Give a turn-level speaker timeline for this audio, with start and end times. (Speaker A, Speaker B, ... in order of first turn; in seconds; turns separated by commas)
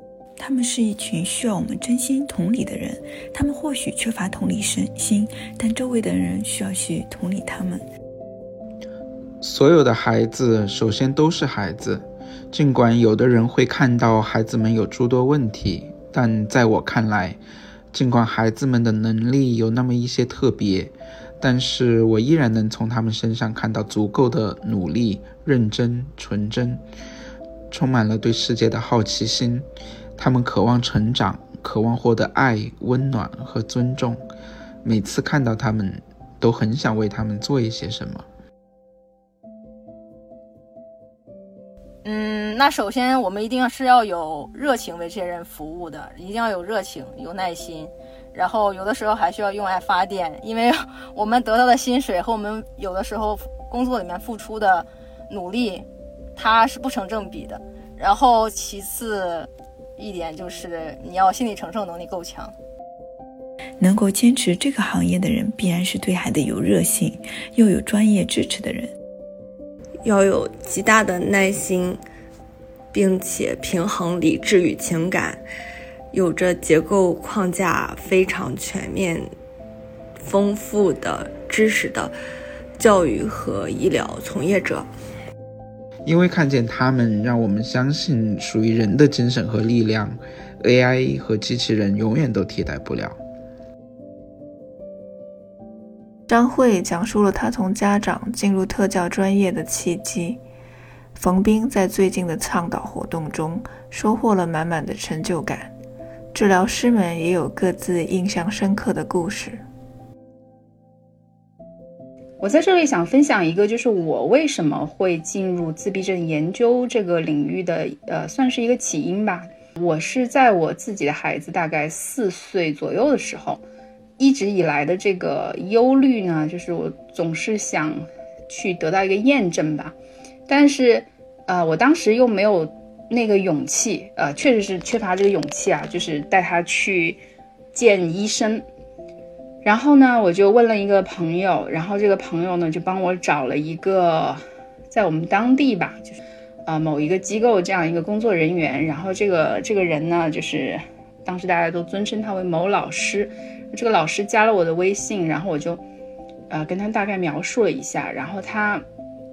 Speaker A: 0.4-7.8, Speaker B: 9.4-17.4, Speaker B: 17.9-26.8, Speaker B: 27.7-29.6, Speaker B: 30.2-34.2, Speaker B: 34.8-38.2, Speaker C: 42.0-62.5, Speaker A: 63.8-68.9, Speaker D: 70.1-72.0, Speaker D: 72.9-75.4, Speaker D: 76.1-79.3, Speaker D: 80.2-82.1, Speaker D: 82.8-84.9, Speaker B: 86.0-93.2, Speaker E: 96.3-100.4, Speaker E: 101.1-105.7, Speaker E: 106.3-109.6, Speaker F: 112.4-123.6, Speaker F: 124.2-129.9, Speaker F: 130.5-137.2, Speaker F: 137.7-138.6, Speaker F: 139.6-155.8, Speaker F: 156.5-158.8